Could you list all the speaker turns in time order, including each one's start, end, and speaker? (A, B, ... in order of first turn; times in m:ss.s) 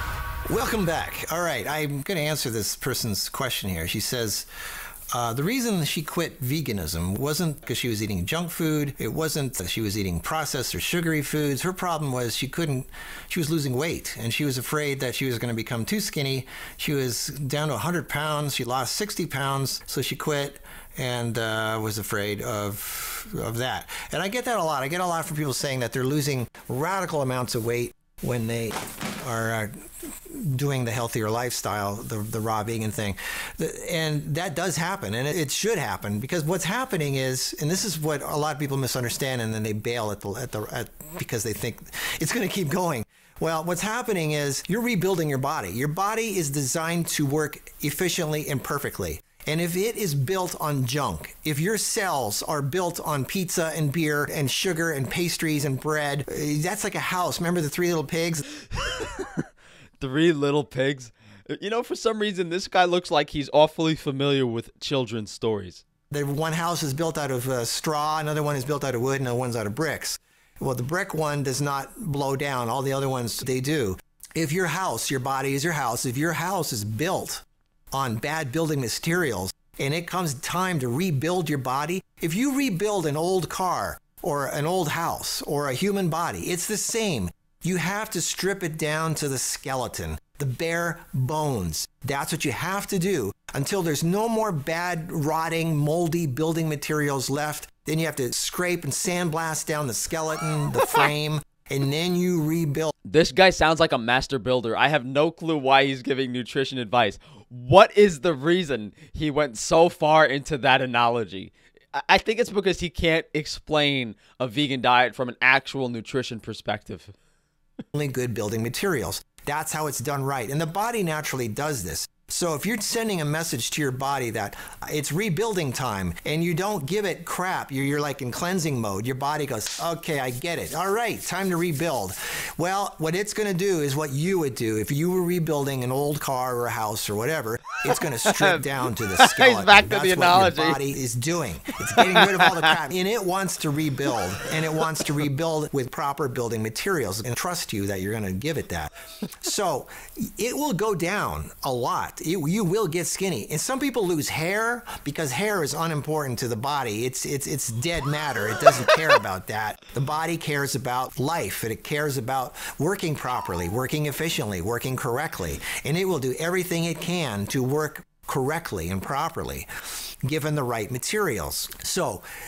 0:00.5-0:04.5 A
0:05.1-0:58.4 A
0:58.7-0:59.4 B
1:00.0-1:05.8 B
1:06.1-1:42.9 A
1:43.0-1:57.1 B
1:57.9-2:49.7 A
2:17.8-2:20.8 B
2:22.0-2:22.7 B
2:50.2-2:52.2 A